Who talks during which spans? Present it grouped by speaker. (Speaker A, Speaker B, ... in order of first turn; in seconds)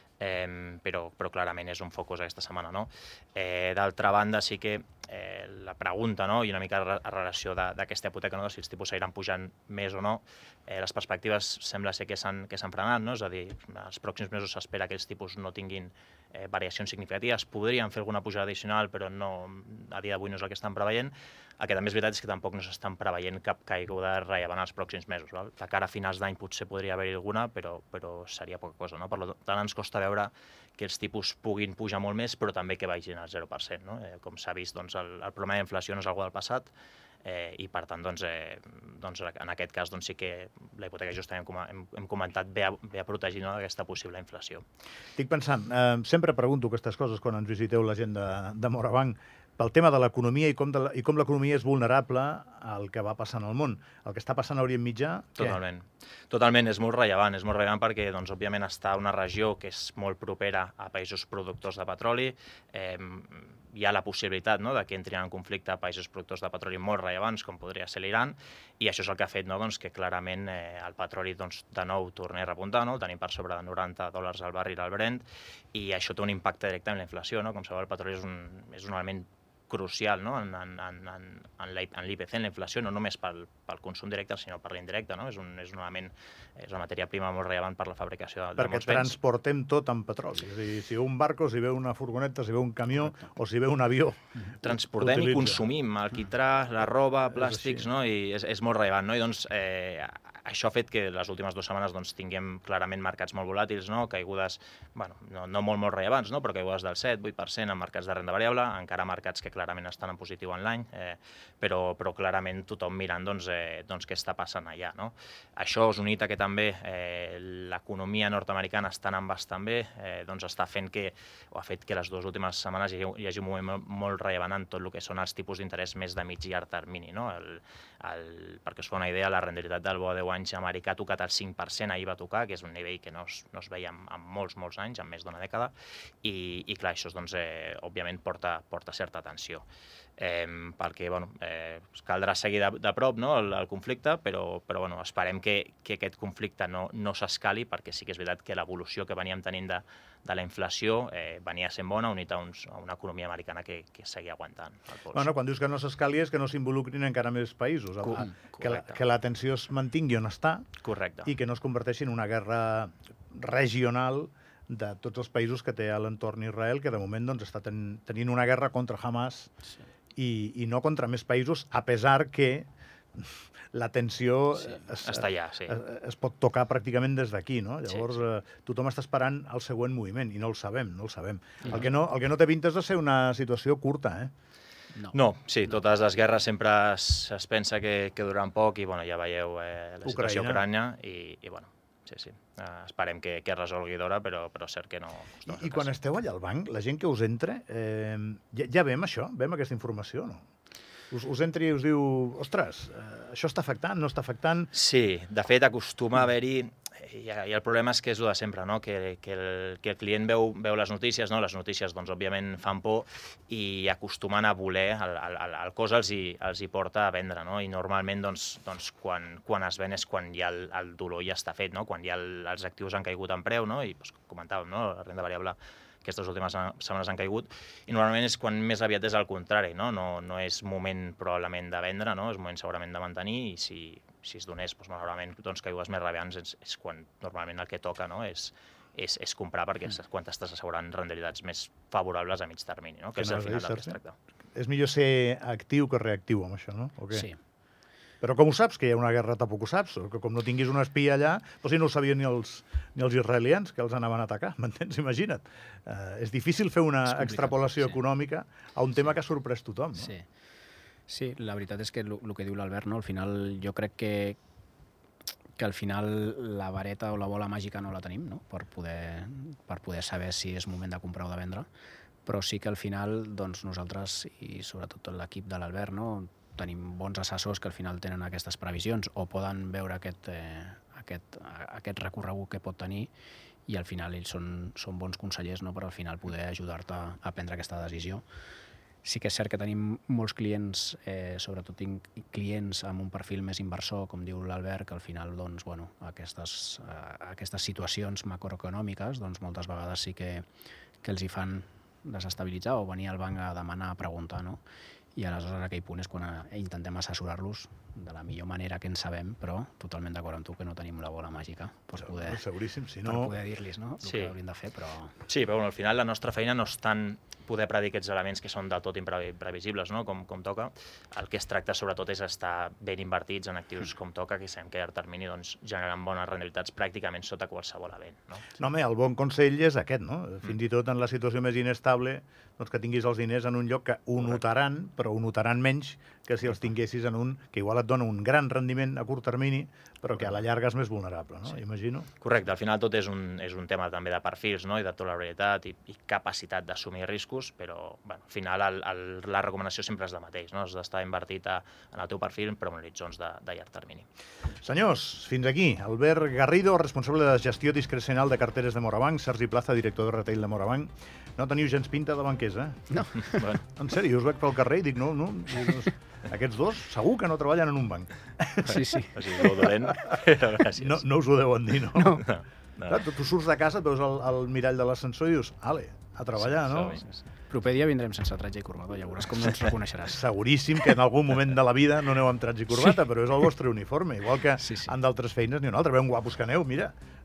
Speaker A: 0.2-36.7, 37.2-44.6, 55.4-89.1, 94.6-139.7, 140.2-155.3, 158.1-159.0, 160.8-161.3, 175.0-175.8, 185.1-195.9, 204.7-244.2, 314.0-314.3, 315.3-328.5, 342.2-354.1, 363.2-363.6, 369.1-371.0, 372.2-373.0, 376.4-377.2
Speaker B: 45.2-55.6, 88.6-95.7, 97.3-97.9, 155.1-169.5, 170.2-184.3, 190.1-190.6, 195.5-200.4, 201.1-204.7, 243.2-244.0, 244.6-247.3, 248.2-260.1, 312.0-313.3, 328.6-342.1, 354.6-362.9, 363.6-370.1, 370.8-372.2, 372.9-377.0, 380.1-386.9
Speaker C: 247.1-247.4, 257.1-258.0, 260.0-260.3, 261.1-264.4, 265.6-271.7, 272.2-283.1, 283.7-288.2, 289.0-300.4, 301.0-304.6, 305.1-312.4, 313.0-315.2, 362.9-363.5, 368.6-369.2, 371.9-372.2, 377.5-380.2, 384.6-384.9